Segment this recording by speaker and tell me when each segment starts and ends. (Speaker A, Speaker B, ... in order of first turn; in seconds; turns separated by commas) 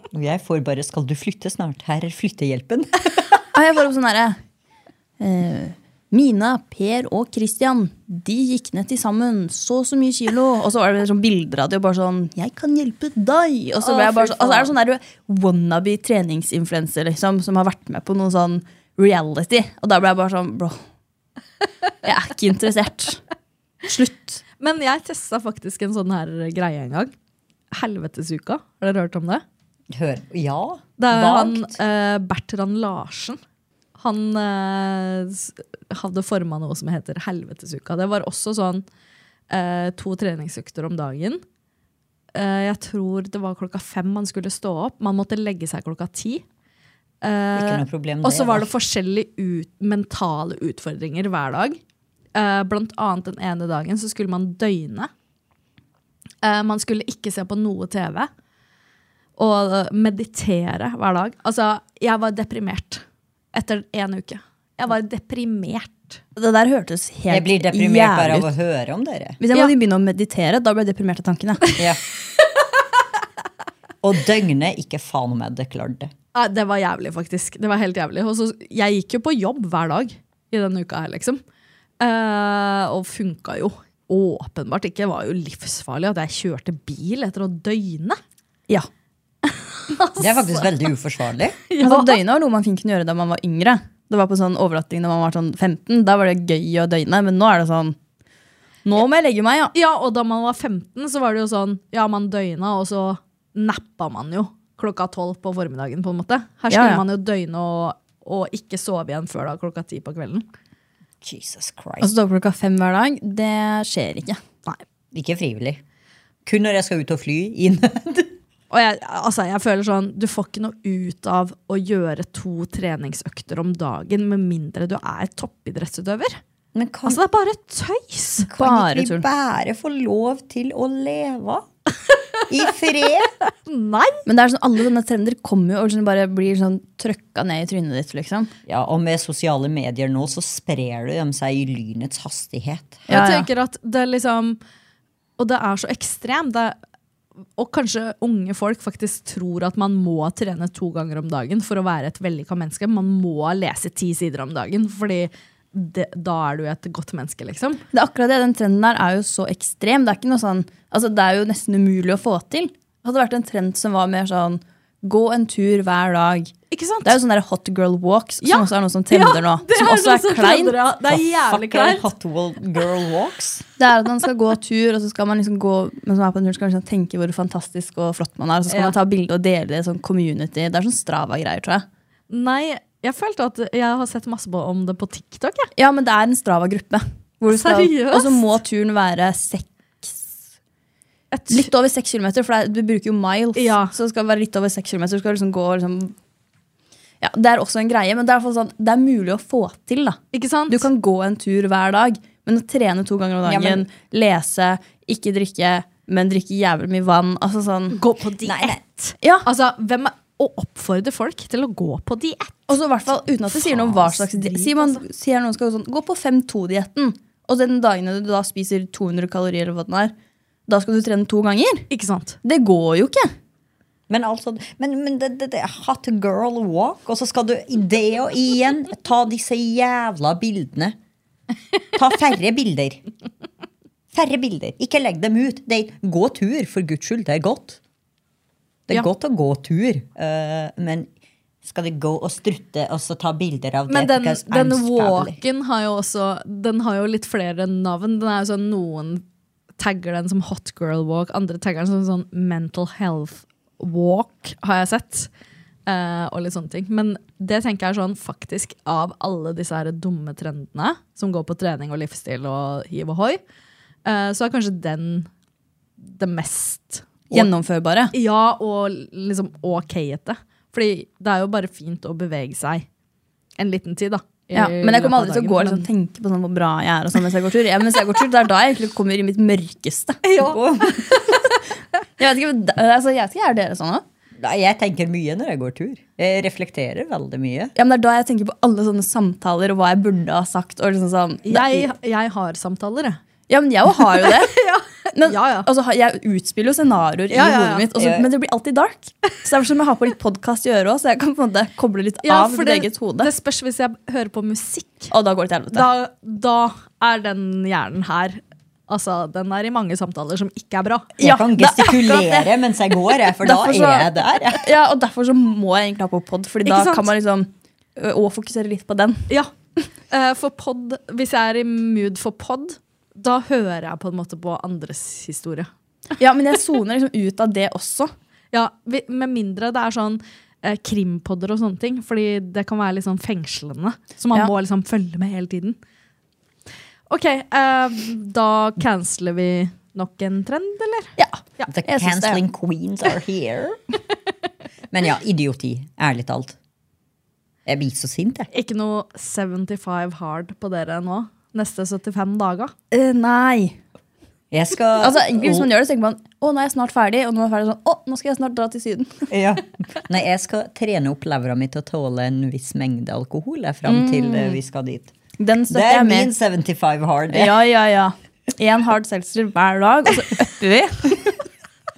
Speaker A: 0.1-3.3, Speaker B: 3.5-4.4, Speaker B: 5.2-20.8, Speaker C: 13.8-14.7, Speaker B: 22.0-23.2, Speaker B: 23.8-24.4, Speaker C: 24.6-27.1, Speaker C: 27.7-29.4, Speaker A: 29.9-31.8, Speaker C: 31.0-33.4, Speaker C: 34.0-38.8, Speaker C: 39.5-41.4, Speaker C: 42.3-46.4, Speaker C: 47.2-51.8, Speaker A: 47.5-48.7, Speaker C: 52.3-55.1, Speaker C: 56.4-58.3, Speaker C: 59.4-66.2, Speaker B: 66.3-68.5, Speaker A: 67.3-69.4, Speaker B: 69.4-71.7, Speaker A: 74.0-76.1, Speaker C: 76.3-81.4, Speaker C: 82.0-88.2, Speaker C: 89.9-90.8, Speaker A: 90.2-91.6, Speaker C: 91.7-92.2, Speaker B: 91.8-98.0, Speaker B: 98.8-99.7, Speaker C: 99.7-110.4, Speaker B: 106.7-107.0, Speaker A: 111.2-112.1, Speaker B: 112.0-114.4, Speaker A: 115.1-115.8, Speaker A: 116.5-118.3, Speaker C: 118.7-126.4, Speaker A: 126.7-127.2, Speaker C: 127.0-128.5, Speaker A: 128.5-131.7, Speaker B: 128.6-129.2, Speaker A: 132.5-133.3, Speaker C: 133.5-134.2, Speaker B: 134.2-138.5, Speaker A: 138.7-143.2, Speaker B: 143.1-143.5, Speaker C: 143.1-144.6, Speaker C: 145.4-146.8, Speaker C: 147.6-157.8, Speaker B: 157.9-166.5, Speaker C: 166.7-167.2, Speaker B: 167.0-170.8, Speaker C: 168.4-172.1, Speaker A: 171.1-173.6, Speaker B: 173.8-181.8, Speaker C: 178.7-178.9, Speaker C: 182.3-185.7, Speaker B: 185.8-190.3, Speaker C: 187.5-188.4, Speaker C: 191.3-191.7, Speaker B: 191.5-196.1, Speaker C: 193.5-193.9, Speaker B: 197.2-208.0, Speaker C: 200.3-200.9, Speaker A: 203.4-203.8, Speaker C: 207.9-212.8, Speaker A: 208.4-208.8, Speaker B: 209.2-209.4, Speaker B: 212.7-220.1, Speaker C: 213.5-215.0, Speaker B: 220.7-221.9, Speaker C: 221.9-222.4, Speaker B: 222.4-223.3, Speaker A: 224.1-230.9, Speaker A: 231.9-233.0, Speaker A: 234.1-237.8, Speaker A: 238.9-241.1, Speaker A: 241.6-245.4, Speaker C: 243.9-249.2, Speaker C: 249.8-255.3, Speaker C: 255.9-263.4, Speaker C: 264.1-265.3, Speaker C: 266.0-267.4, Speaker B: 267.3-268.1, Speaker C: 268.1-272.9, Speaker C: 273.6-275.9, Speaker B: 274.5-280.2, Speaker C: 280.2-281.4, Speaker A: 280.4-281.2, Speaker B: 282.2-284.0, Speaker A: 284.4-287.7, Speaker B: 287.7-291.9, Speaker C: 291.4-293.2, Speaker B: 293.5-294.5, Speaker C: 294.2-295.7, Speaker B: 295.1-303.3, Speaker C: 297.3-297.9, Speaker A: 297.9-298.2, Speaker C: 302.2-305.1, Speaker B: 305.1-305.9, Speaker C: 305.7-311.1, Speaker B: 311.2-312.5, Speaker A: 311.2-314.7, Speaker B: 313.4-319.3, Speaker C: 316.6-317.1, Speaker C: 320.1-325.7, Speaker B: 326.2-328.1, Speaker C: 328.5-335.8, Speaker C: 337.1-341.7, Speaker B: 341.2-342.4, Speaker A: 341.7-343.8, Speaker A: 344.9-346.6, Speaker A: 347.6-348.5, Speaker C: 348.5-352.7, Speaker B: 352.9-353.8, Speaker A: 354.5-355.7, Speaker B: 355.0-359.3, Speaker A: 359.3-365.1, Speaker B: 363.9-364.6, Speaker B: 365.4-366.3, Speaker A: 365.7-367.6, Speaker B: 367.3-371.4